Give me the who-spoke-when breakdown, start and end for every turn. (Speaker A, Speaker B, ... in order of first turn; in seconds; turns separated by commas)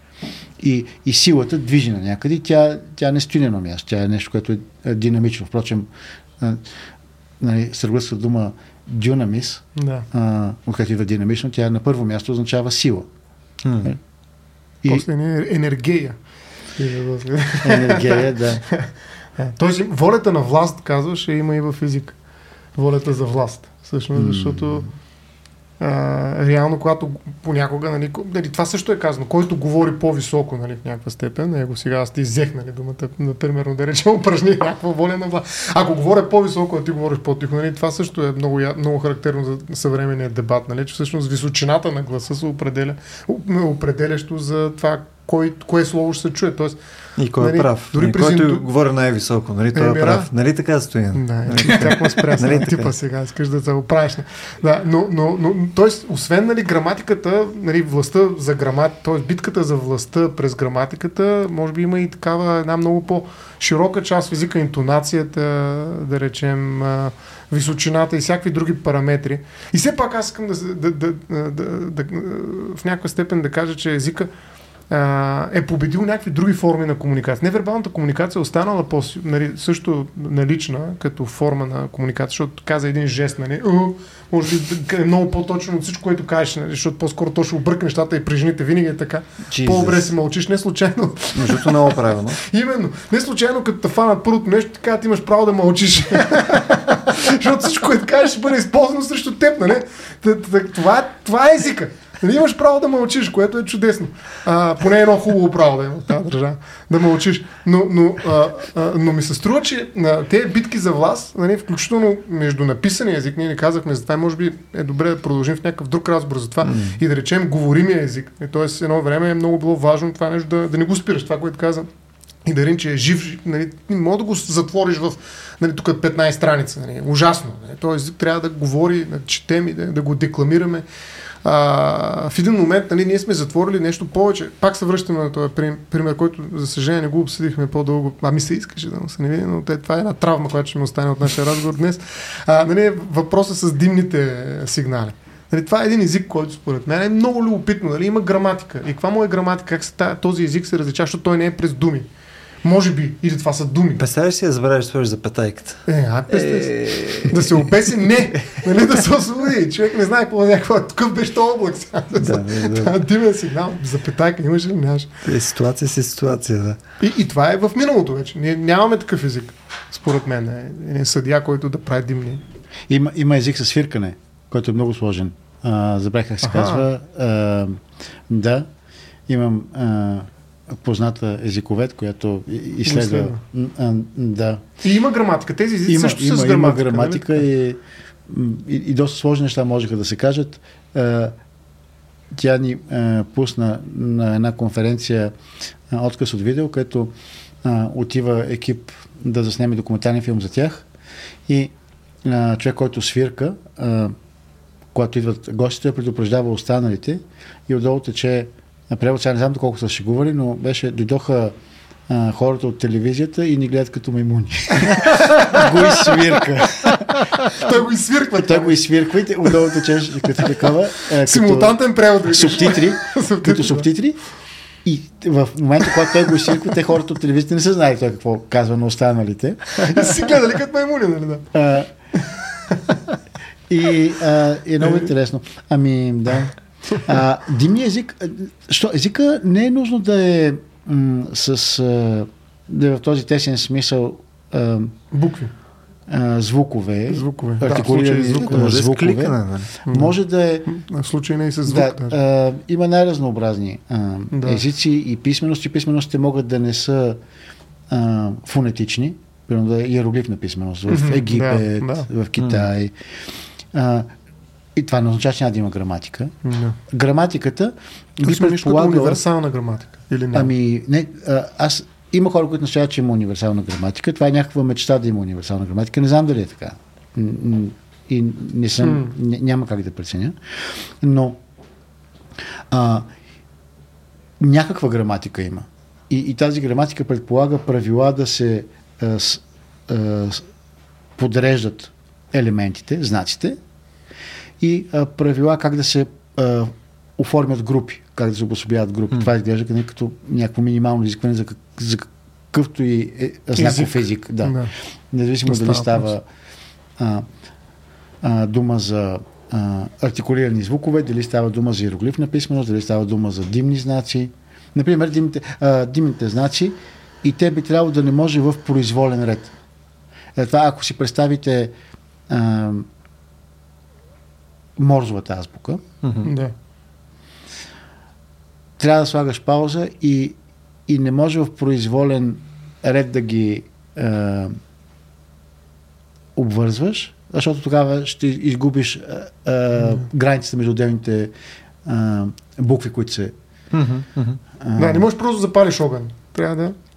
Speaker A: 0.6-5.9, Speaker A: 7.4-13.1, Speaker B: 9.8-10.1, Speaker C: 13.6-13.9, Speaker B: 14.9-16.2, Speaker B: 16.8-22.1, Speaker A: 17.6-18.6, Speaker B: 22.8-24.9, Speaker A: 24.1-24.9, Speaker B: 25.8-46.8, Speaker C: 47.2-52.9, Speaker B: 47.4-48.6, Speaker B: 49.7-50.3, Speaker B: 51.1-74.3, Speaker B: 74.9-121.9, Speaker C: 89.5-90.1, Speaker C: 91.3-92.4, Speaker C: 116.6-117.0, Speaker B: 122.4-130.8, Speaker B: 131.4-152.1, Speaker B: 152.6-154.0, Speaker C: 154.0-157.7, Speaker B: 155.9-165.2, Speaker C: 162.1-163.0, Speaker C: 165.2-166.8, Speaker B: 167.0-172.4, Speaker A: 172.9-178.7, Speaker B: 176.4-176.8, Speaker A: 179.3-184.6, Speaker B: 182.8-183.4, Speaker B: 184.8-187.4, Speaker A: 185.8-191.3, Speaker A: 192.3-195.3, Speaker A: 195.9-200.8, Speaker A: 201.5-201.7, Speaker A: 202.2-204.1, Speaker A: 204.9-211.5, Speaker A: 212.1-217.3, Speaker B: 215.1-215.6, Speaker B: 217.2-218.8, Speaker A: 218.3-224.2, Speaker B: 220.4-220.7, Speaker B: 221.2-223.8, Speaker A: 224.8-230.2, Speaker B: 226.1-226.7, Speaker B: 229.8-231.5, Speaker A: 231.5-231.9, Speaker B: 232.2-233.1, Speaker A: 233.7-244.9, Speaker B: 234.8-235.1, Speaker B: 245.1-245.5, Speaker A: 246.1-250.7, Speaker B: 247.1-248.7, Speaker C: 247.7-249.8, Speaker B: 249.9-252.2, Speaker A: 251.7-257.2, Speaker B: 254.3-254.6, Speaker A: 257.9-262.9, Speaker B: 260.9-262.1, Speaker C: 262.4-262.6, Speaker A: 263.7-264.1, Speaker A: 264.8-266.3, Speaker B: 266.4-266.8, Speaker A: 266.9-269.2, Speaker B: 268.2-270.5, Speaker A: 270.3-280.4, Speaker B: 278.8-279.1, Speaker A: 281.0-281.4, Speaker A: 282.7-283.1, Speaker A: 284.4-290.4, Speaker A: 291.2-293.6, Speaker A: 294.6-306.2, Speaker B: 303.6-304.7, Speaker B: 305.4-306.1, Speaker A: 307.0-307.3, Speaker A: 308.2-319.5, Speaker A: 320.3-321.7, Speaker A: 322.3-322.9, Speaker A: 324.8-325.8, Speaker C: 326.0-326.3, Speaker B: 326.2-326.5, Speaker A: 328.8-334.5, Speaker A: 336.3-341.3, Speaker A: 341.8-343.3, Speaker C: 343.7-344.4, Speaker A: 344.6-345.1, Speaker B: 344.8-346.7